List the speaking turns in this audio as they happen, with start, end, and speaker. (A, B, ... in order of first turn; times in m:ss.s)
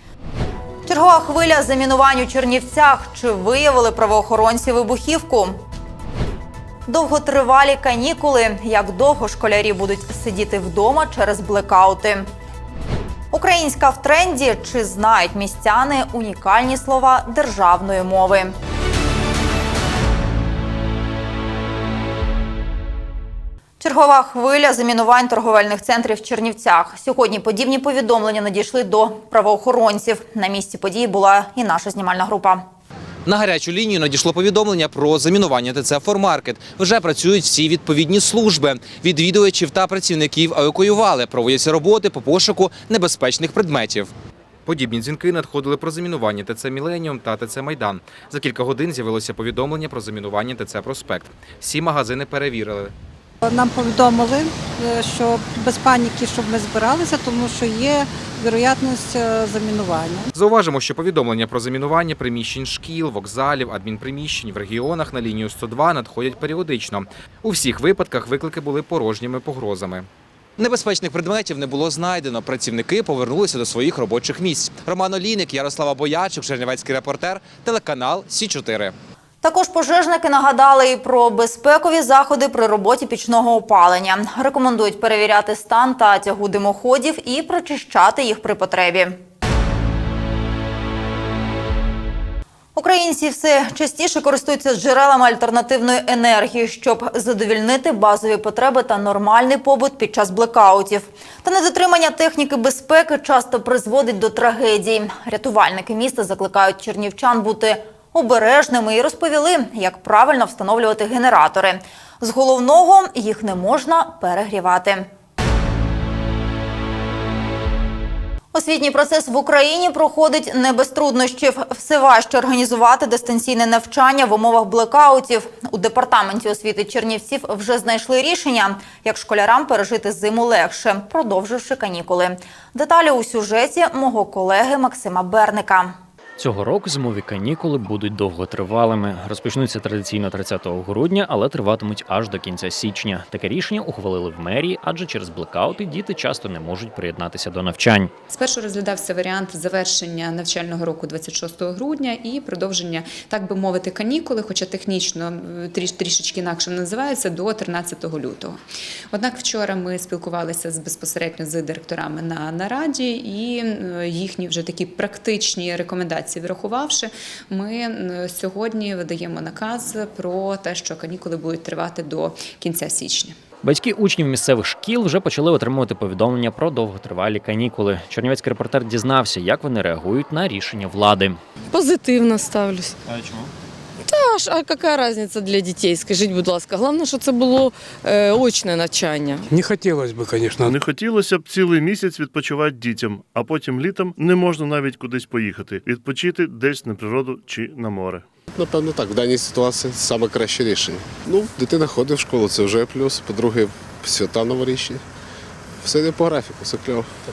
0:00.8-0:05.6 A
0:06.9-0:12.3 A
0:13.3-0:18.5 A
0:23.8-0:32.6 A
0:33.3-0:44.1 B
0:44.7-0:52.9 B
0:53.4-1:00.3 C
1:00.3-1:10.1 B
1:10.6-1:18.9 B
1:19.4-1:29.2 A
1:32.8-1:55.1 A
1:58.5-2:15.9 A
2:16.4-2:28.1 D
2:28.3-2:53.4 E
2:53.6-3:01.4 D
3:01.7-3:03.0 F
3:03.1-3:03.5 D
3:04.1-3:09.4 F
3:10.6-3:18.3 G
3:18.6-3:25.0 H
3:25.8-3:27.1 H